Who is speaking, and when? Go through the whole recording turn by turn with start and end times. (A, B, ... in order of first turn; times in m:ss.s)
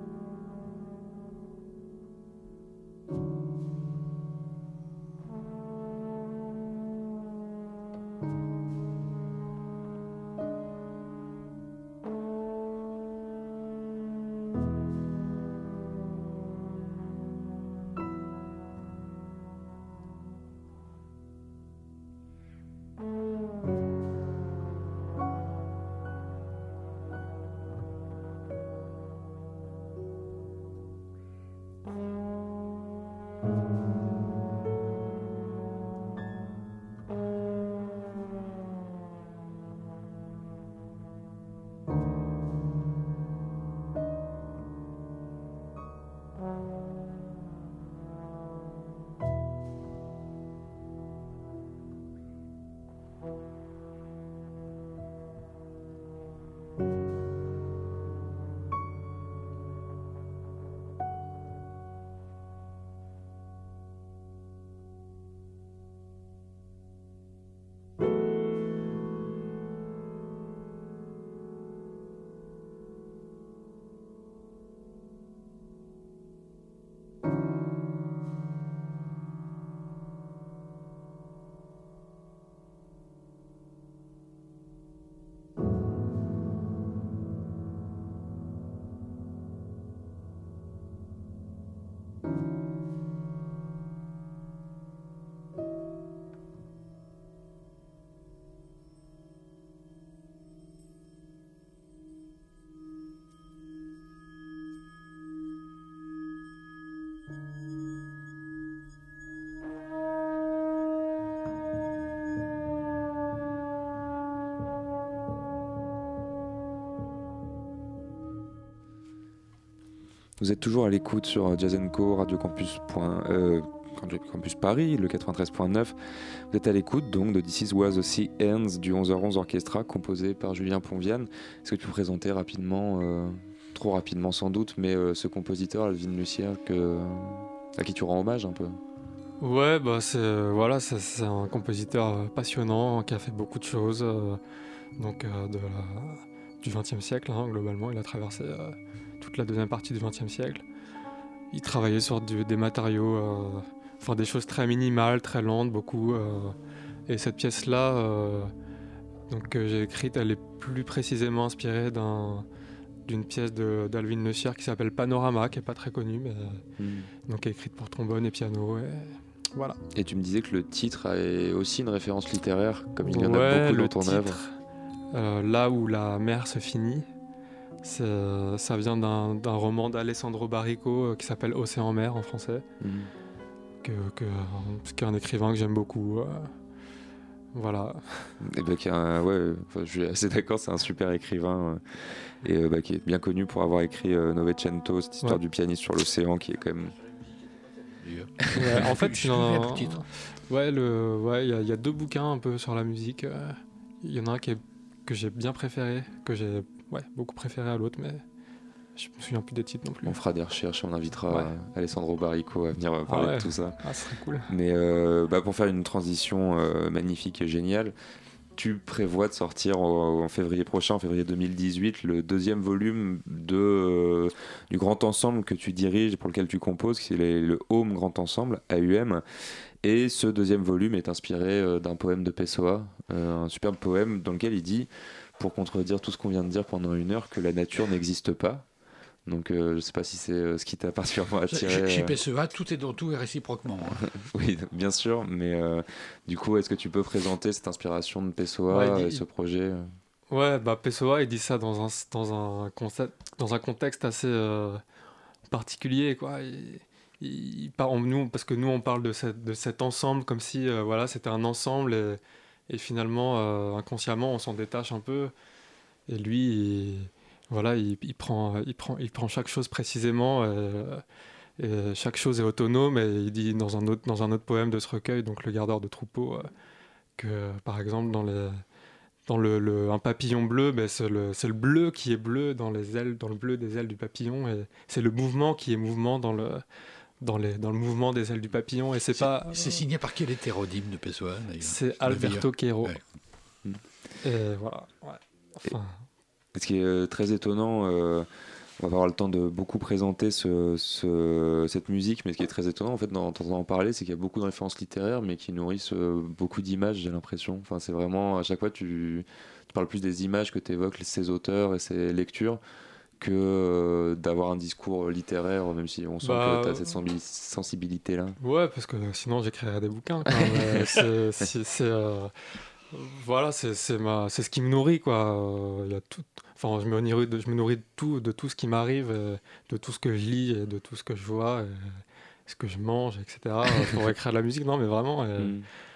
2:00.4-2:06.0 A
2:06.5-2:18.8 A
2:19.4-2:24.4 B
2:25.0-2:30.6 B
2:31.5-2:36.6 B
2:37.1-2:38.5 B
2:39.3-2:42.5 B
2:43.1-2:46.6 B
2:46.8-2:47.1 A
2:47.3-2:49.8 B
2:49.9-2:54.4 A
2:53.1-2:54.6 B
2:55.1-2:57.1 B
2:57.8-3:02.6 B
3:02.8-3:03.1 A
3:03.8-3:06.5 B
3:07.5-3:08.4 B
3:08.4-3:17.0 A
3:17.6-3:20.0 C
3:18.5-3:28.2 B
3:29.0-3:30.2 B
3:30.1-3:33.8 A
3:33.1-3:34.5 B
3:34.5-3:37.9 A
3:38.6-3:49.2 A
3:49.8-3:58.6 A
3:59.3-4:02.2 A
4:01.5-4:04.1 C
4:04.1-4:09.9 A
4:08.7-4:09.2 B
4:10.3-4:14.8 B
4:15.5-4:25.3 B
4:26.1-4:31.0 B
4:31.6-4:36.5 B
4:37.2-4:38.6 B
4:39.3-4:46.6 B
4:47.2-4:49.8 B
4:49.2-4:53.0 C
4:51.6-4:53.0 B
4:54.2-4:56.0 B
4:56.5-4:58.3 A
4:58.8-5:12.6 A
5:13.2-5:18.4 A
5:16.2-5:17.0 B
5:18.4-5:22.3 B
5:20.3-5:21.0 A
5:22.9-5:35.6 B
5:35.4-5:35.7 A